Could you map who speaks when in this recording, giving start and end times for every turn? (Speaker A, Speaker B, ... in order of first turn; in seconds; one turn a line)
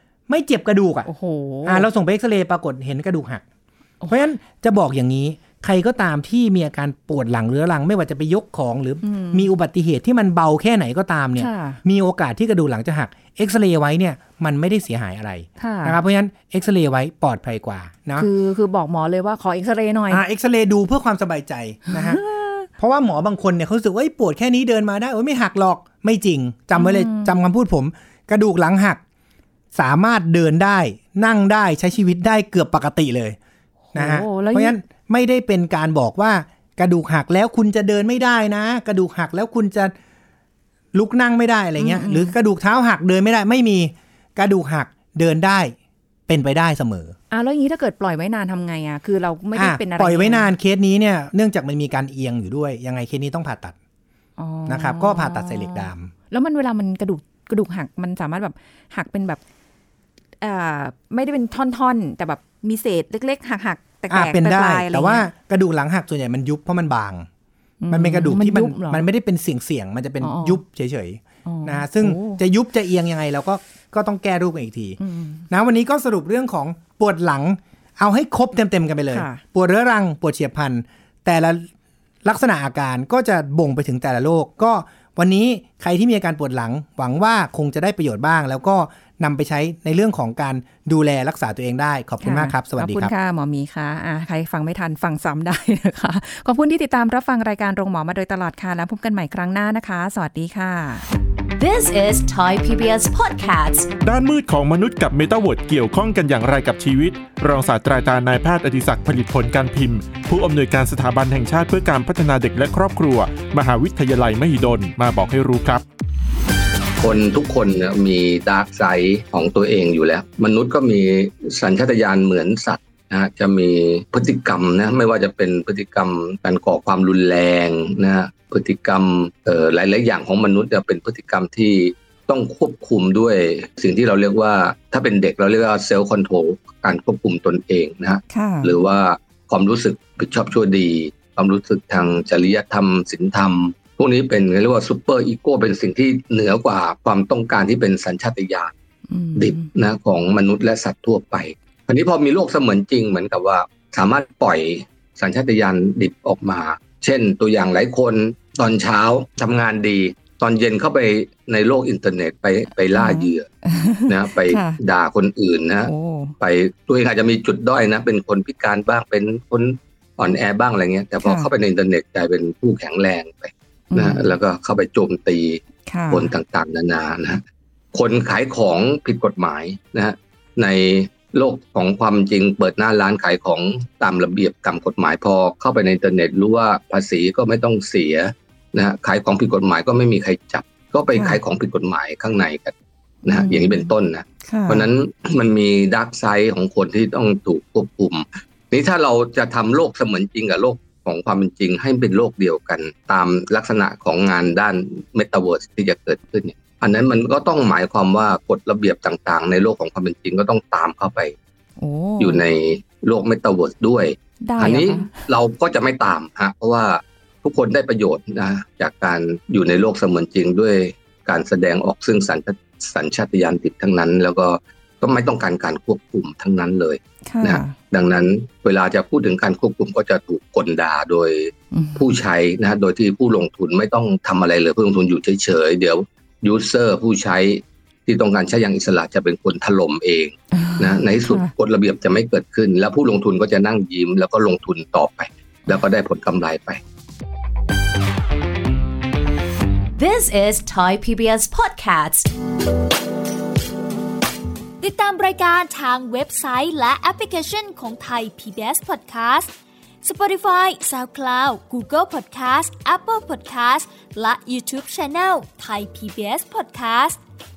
Speaker A: 0.3-1.1
Speaker B: 1.0-1.9
Speaker A: 1.6-3.4
Speaker A: 4.1-18.3
Speaker B: 9.0-9.5
Speaker B: 11.3-11.8
Speaker B: 15.6-16.0
Speaker B: 18.1-20.2
Speaker A: 20.1-29.0
Speaker B: 21.9-22.6
Speaker B: 26.7-27.3
Speaker A: 29.7-33.4
Speaker B: 33.9-34.8
Speaker A: 33.9-39.9
Speaker A: 40.9-45.7
Speaker B: 41.8-42.3
Speaker A: 46.3-47.1
Speaker B: 47.3-50.5
Speaker A: 49.5-53.8
Speaker B: 54.4-59.4
Speaker A: 54.6-56.1
Speaker B: 60.4-65.3
Speaker A: 64.1-67.3
Speaker B: 67.8-69.0
Speaker A: 67.9-75.0
Speaker B: 70.2-70.6
Speaker B: 71.4-72.4
Speaker B: 75.0-75.5
Speaker A: 75.5-81.7
Speaker B: 79.1-79.4
Speaker A: 82.2-93.1
Speaker B: 92.2-101.0
Speaker C: 101.5-103.9
Speaker D: 104.0-115.8
Speaker E: 117.0-148.7
Speaker B: 138.3-138.8
Speaker B: 149.1-149.7
Speaker E: 149.3-163.4
Speaker B: 162.9-164.8
Speaker E: 164.1-192.7
Speaker B: 165.8-166.3
Speaker B: 171.2-171.5
Speaker B: 173.9-174.3
Speaker B: 175.8-176.3
Speaker B: 191.1-191.4
Speaker E: 193.2-211.3
Speaker B: 193.2-194.9
Speaker B: 211.8-212.4
Speaker E: 212.2-246.8
Speaker B: 214.4-215.1
Speaker B: 227.2-227.8
Speaker B: 231.7-232.1
Speaker B: 240.5-241.5
Speaker C: 249.9-252.3
Speaker F: 254.8-259.5
Speaker F: 260.0-267.2